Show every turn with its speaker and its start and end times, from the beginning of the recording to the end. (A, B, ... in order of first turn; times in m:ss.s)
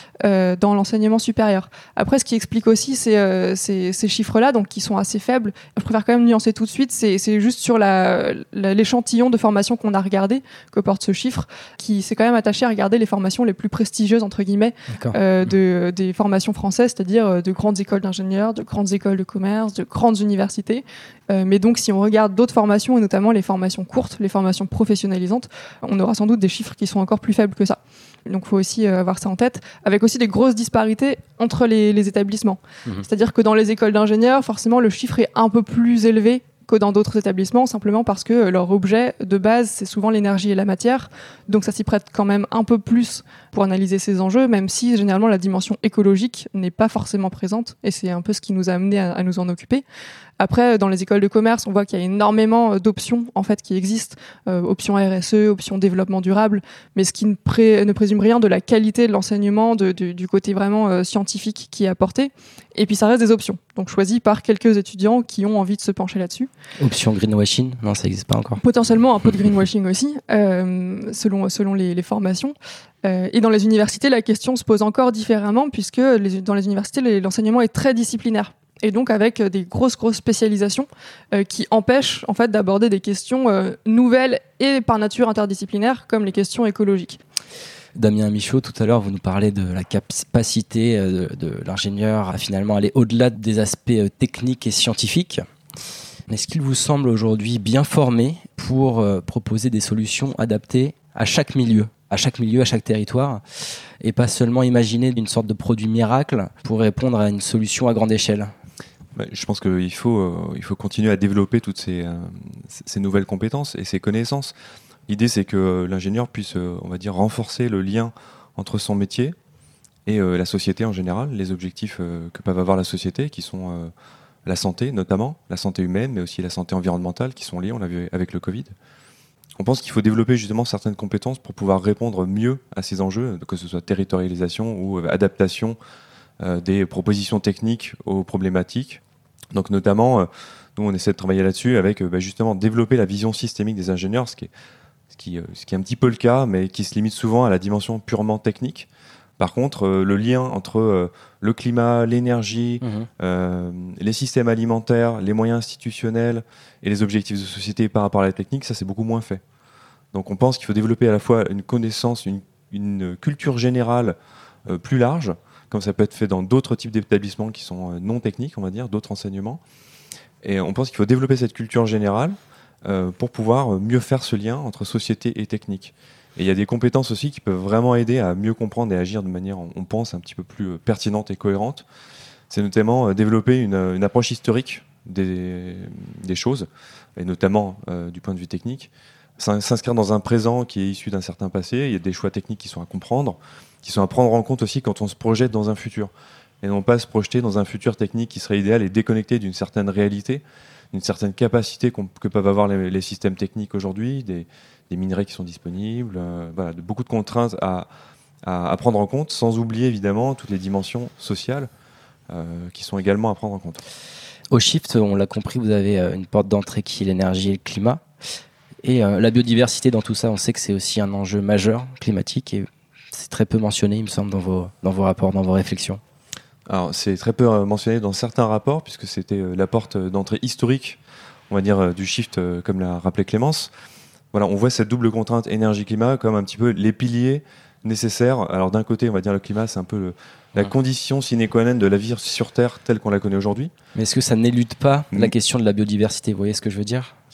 0:00.2-0:49.8 A
0:14.9-0:15.2 B
0:50.4-1:06.5 A
1:06.8-1:08.6 B
1:08.6-1:27.2 A
1:28.0-1:35.4 B
1:36.3-1:43.4 B
1:44.0-1:48.5 B
1:49.2-1:54.5 C
1:55.1-1:59.4 C
2:00.1-2:03.9 C
2:04.4-2:08.7 C
2:09.6-2:15.8 C
2:16.4-2:19.0 C
2:19.5-2:24.5 C
2:25.1-2:28.9 C
2:29.4-2:39.4 C
2:32.8-2:33.1 B
2:40.1-2:49.6 C
2:50.4-3:01.8 C
3:02.5-3:16.1 C
3:16.6-3:27.9 C
3:28.4-3:31.7 C
3:32.3-3:33.8 C
3:34.5-3:38.0 B
3:38.8-3:46.0 B
3:46.7-3:51.0 C
3:51.5-3:53.7 C
3:54.3-4:03.7 C
4:04.0-4:07.1 B